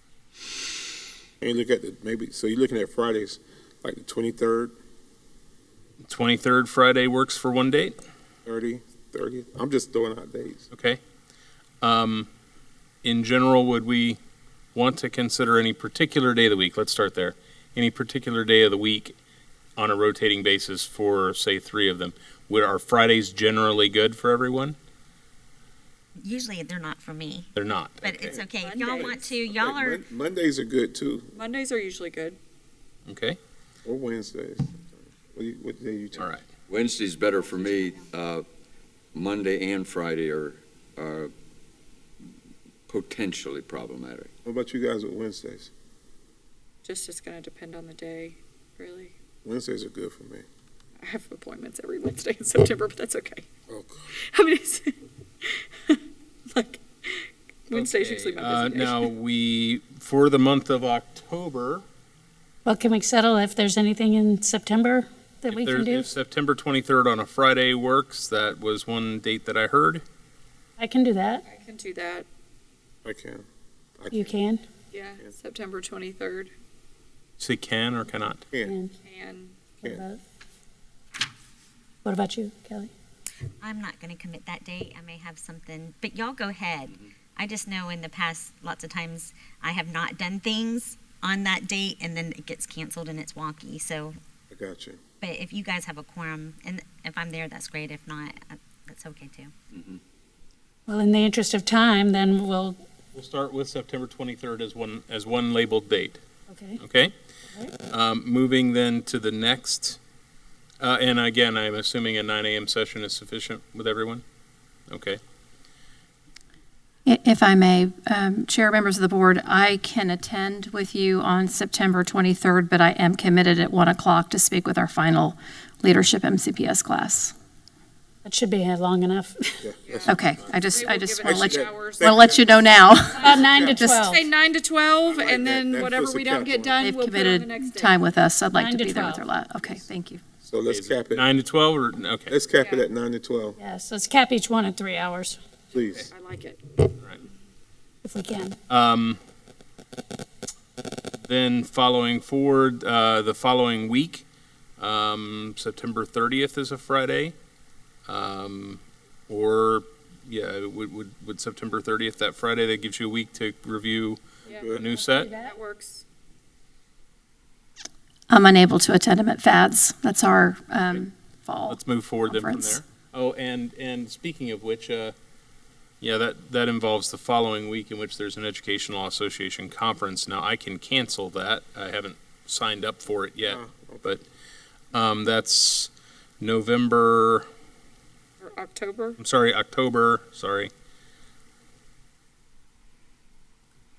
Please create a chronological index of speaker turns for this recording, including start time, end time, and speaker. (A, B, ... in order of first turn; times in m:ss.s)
0:01.4-0:04.7 A
0:06.1-0:08.0 B
0:08.4-0:10.6 A
0:10.7-0:11.0 B
0:11.8-0:12.3 B
0:13.0-0:14.2 B
0:14.7-0:19.2 B
0:19.8-0:24.8 B
0:26.2-0:27.5 C
0:27.5-0:28.4 B
0:28.0-0:30.0 C
0:28.6-0:29.3 D
0:29.0-0:31.3 A
0:31.3-0:32.4 D
0:33.0-0:33.4 B
0:33.8-0:36.3 A
0:36.7-0:38.4 E
0:39.1-0:41.3 E
0:42.9-0:44.3 E
0:44.4-0:45.7 A
0:46.8-0:49.1 D
0:49.4-0:50.4 A
0:51.0-0:53.4 D
0:53.7-0:54.1 A
0:54.3-0:56.0 D
0:56.5-0:59.1 D
0:57.7-1:01.8 B
1:02.6-1:06.1 F
1:05.5-1:10.0 B
1:10.8-1:11.4 F
1:11.5-1:12.3 D
1:13.0-1:13.4 A
1:14.0-1:14.4 A
1:14.1-1:14.6 F
1:14.9-1:16.5 D
1:17.4-1:18.4 B
1:18.6-1:18.9 F
1:19.0-1:19.6 D
1:19.8-1:20.2 F
1:22.0-1:22.9 F
1:23.6-1:34.2 C
1:34.5-1:35.0 A
1:35.2-1:39.5 C
1:39.7-1:40.0 E
1:40.9-1:42.8 F
1:43.1-1:46.2 B
1:46.5-1:46.8 F
1:46.8-1:47.1 B
1:47.9-1:50.0 B
1:50.8-1:54.2 B
1:54.9-1:55.2 B
1:57.0-2:07.3 G
2:08.2-2:09.6 F
2:09.6-2:10.2 A
2:09.8-2:12.4 D
2:10.1-2:14.0 G
2:11.2-2:13.9 A
2:13.2-2:14.3 F
2:13.9-2:17.9 D
2:15.1-2:16.8 A
2:16.8-2:20.2 G
2:18.5-2:19.3 F
2:20.4-2:21.3 A
2:20.7-2:22.3 B
2:22.3-2:23.6 A
2:22.6-2:22.9 D
2:23.6-2:25.4 F
2:25.7-2:26.1 A
2:25.8-2:26.1 B
2:26.1-2:26.9 D
2:28.0-2:28.6 F
2:28.7-2:29.2 B
2:31.2-2:34.2 B
2:34.8-2:37.3 B
2:38.1-2:45.3 B
2:44.4-2:44.8 A
2:44.4-2:46.0 D
2:44.9-2:45.5 F
2:48.3-2:52.8 G
2:51.7-2:55.2 B
2:56.0-3:04.2 B
3:03.4-3:04.2 A
3:04.9-3:07.4 B
3:08.4-3:09.2 D
3:09.2-3:10.7 B